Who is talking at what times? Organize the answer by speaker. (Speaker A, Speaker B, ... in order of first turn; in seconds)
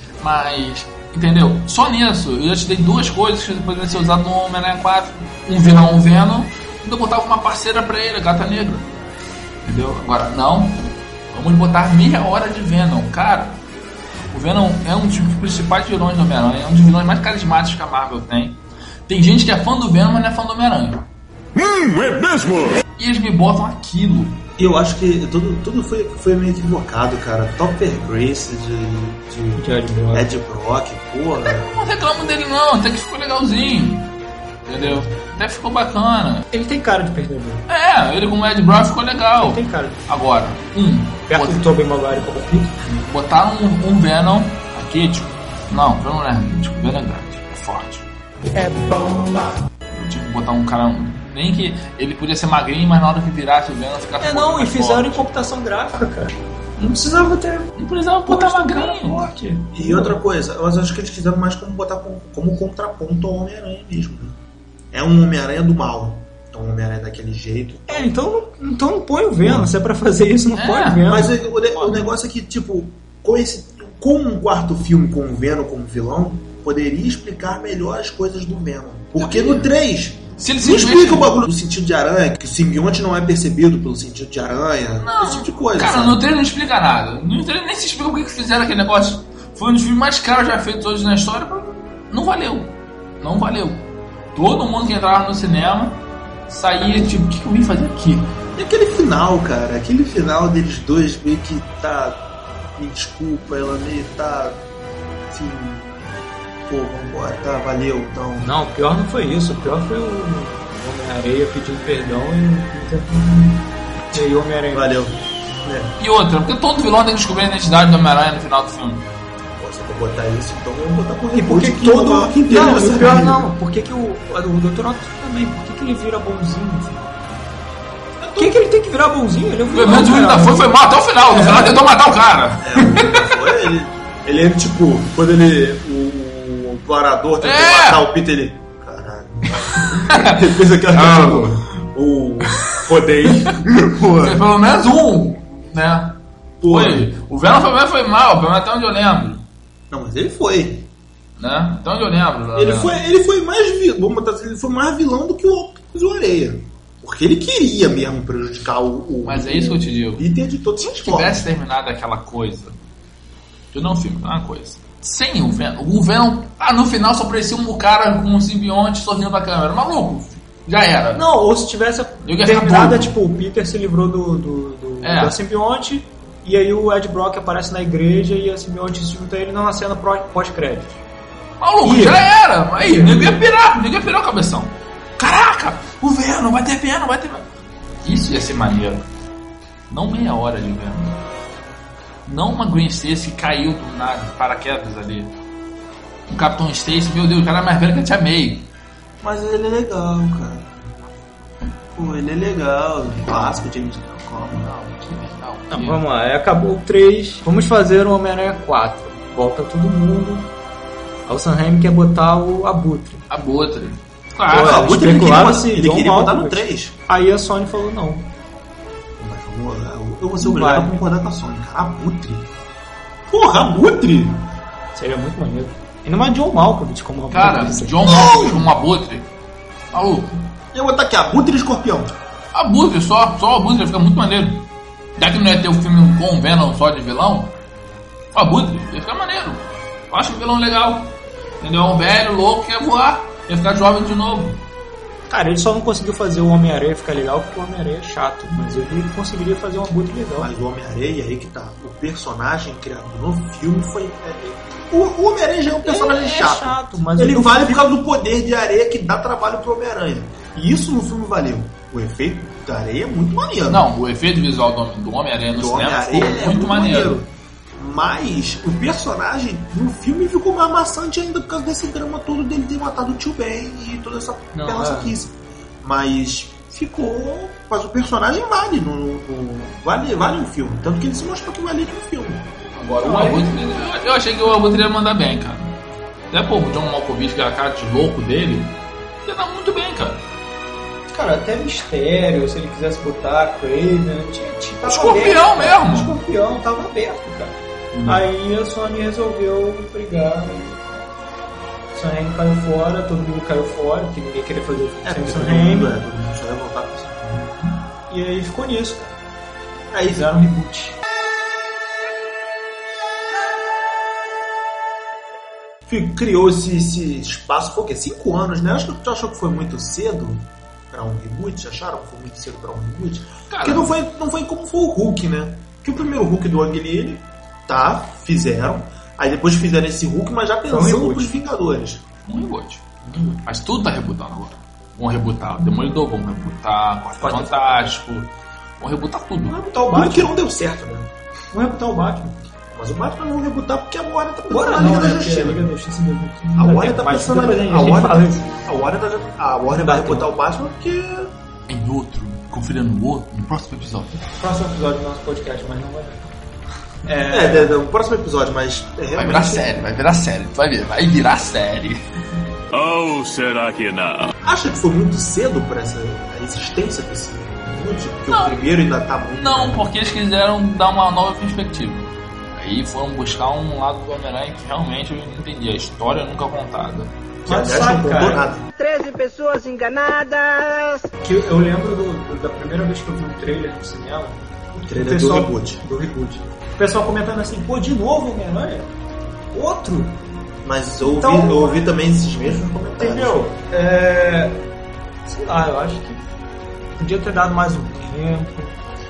Speaker A: 0.2-8.9, 9.6-13.6, 14.3-21.0, 23.0-24.4, 31.3-34.1, 34.6-36.5, 37.7-41.6, 42.8-48.0, 49.9-55.3, 57.8-59.3, 70.5-71.1, 79.2-79.7, 80.4-81.3, 85.0-98.3, 116.0-119.0, 129.7-133.2, 137.4-138.0, 140.1-140.3, 140.9-141.6, 144.2-149.4, 151.4-153.0, 159.2-160.2, 160.8-162.8, 163.7-171.2, 172.2-173.1, 175.0-175.4, 181.6-187.5, 188.0-189.1, 189.9-191.2, 192.2-195.3, 196.3-198.7, 203.2-203.6, 205.0-206.0, 213.3-214.8, 227.3-229.3, 229.9-230.5, 232.5-234.7, 235.2-237.6, 238.3-244.6, 263.7-267.2, 282.7-285.8, 286.3-290.2, 294.8-296.1, 323.5-323.9, 332.2-332.8, 333.4-339.6, 351.7-354.2, 359.1-362.0, 368.3-368.7, 369.3-377.1
Speaker B: 21.5-22.8, 362.7-364.3
Speaker C: 24.6-31.8, 59.7-64.4, 64.9-68.1, 69.4-69.7, 71.1-86.2, 98.5-104.6, 105.3-106.0, 106.7-108.5, 114.1-115.9, 119.6-123.4, 128.2-128.6, 132.6-144.4, 146.6-147.1, 149.9-150.9, 152.6-161.5, 199.2-200.9, 201.9-205.1, 214.5-216.9, 219.2-222.5, 223.3-224.5, 228.0-228.7, 230.7-232.1, 250.4-263.9, 265.6-282.5, 305.0-307.5, 309.9-310.3, 315.9-332.0, 339.9-341.1, 342.7-345.7, 346.6-351.3, 357.3-359.7, 364.4-369.9, 377.4-378.7, 384.7-385.8, 390.6-393.5
Speaker D: 29.6-30.3, 36.5-37.6, 39.4-40.0, 41.3-42.8, 48.5-49.5, 54.2-57.7, 58.2-60.2, 67.9-72.0, 108.4-115.0, 121.3-127.2, 128.4-130.8, 131.3-131.7, 171.1-181.0, 181.8-183.4, 205.7-210.5, 211.2-213.2, 214.5-218.3, 220.4-221.0, 224.9-228.4, 245.3-250.5, 255.8-257.9, 274.5-275.1, 283.0-283.5, 291.1-301.0, 301.9-305.9, 308.1-309.1, 310.0-311.0, 330.7-331.3, 337.2-337.9, 339.5-340.3, 341.5-342.4, 344.5-348.4, 349.7-350.3, 354.4-356.3, 357.0-357.8, 377.4-378.5, 381.2-388.9, 389.5-390.2, 391.0-391.9, 393.0-394.6, 395.2-396.2, 397.0-398.8
Speaker E: 378.8-381.1